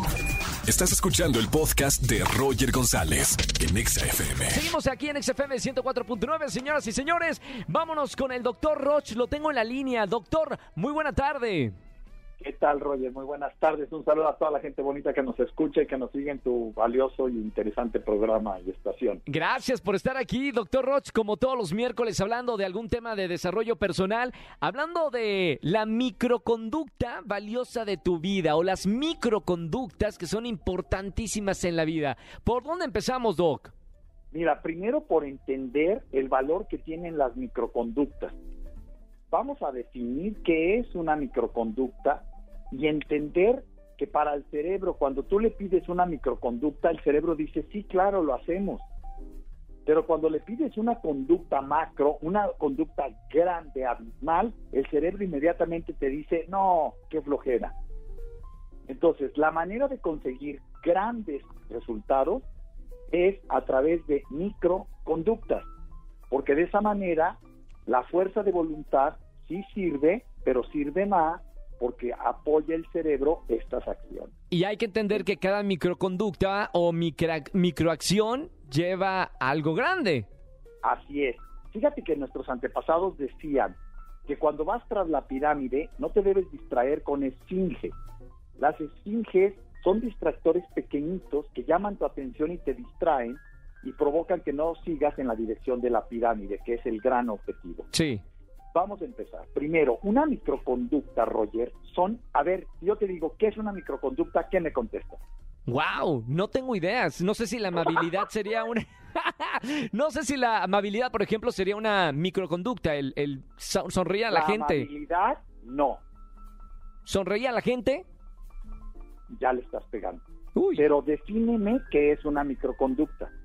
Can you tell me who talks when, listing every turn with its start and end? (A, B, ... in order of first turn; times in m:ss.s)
0:00.6-0:04.6 A
0:04.5-0:11.7 B
0:12.4-0:19.2 C
0:19.3-0:33.7 B
0:34.3-0:38.4 C
0:39.3-0:48.8 C
0:49.9-0:57.7 C
0:58.9-1:02.4 C
1:03.1-1:05.7 C
1:06.3-1:14.3 C
1:14.5-1:20.3 B
1:20.8-1:27.9 C
1:28.6-1:37.9 C
1:37.9-1:38.2 B
1:38.7-1:45.2 C
1:45.7-1:54.9 B
1:54.3-1:56.0 C
1:57.1-1:58.0 B
1:59.3-2:00.2 C
2:00.6-2:00.9 B
2:00.8-2:03.3 C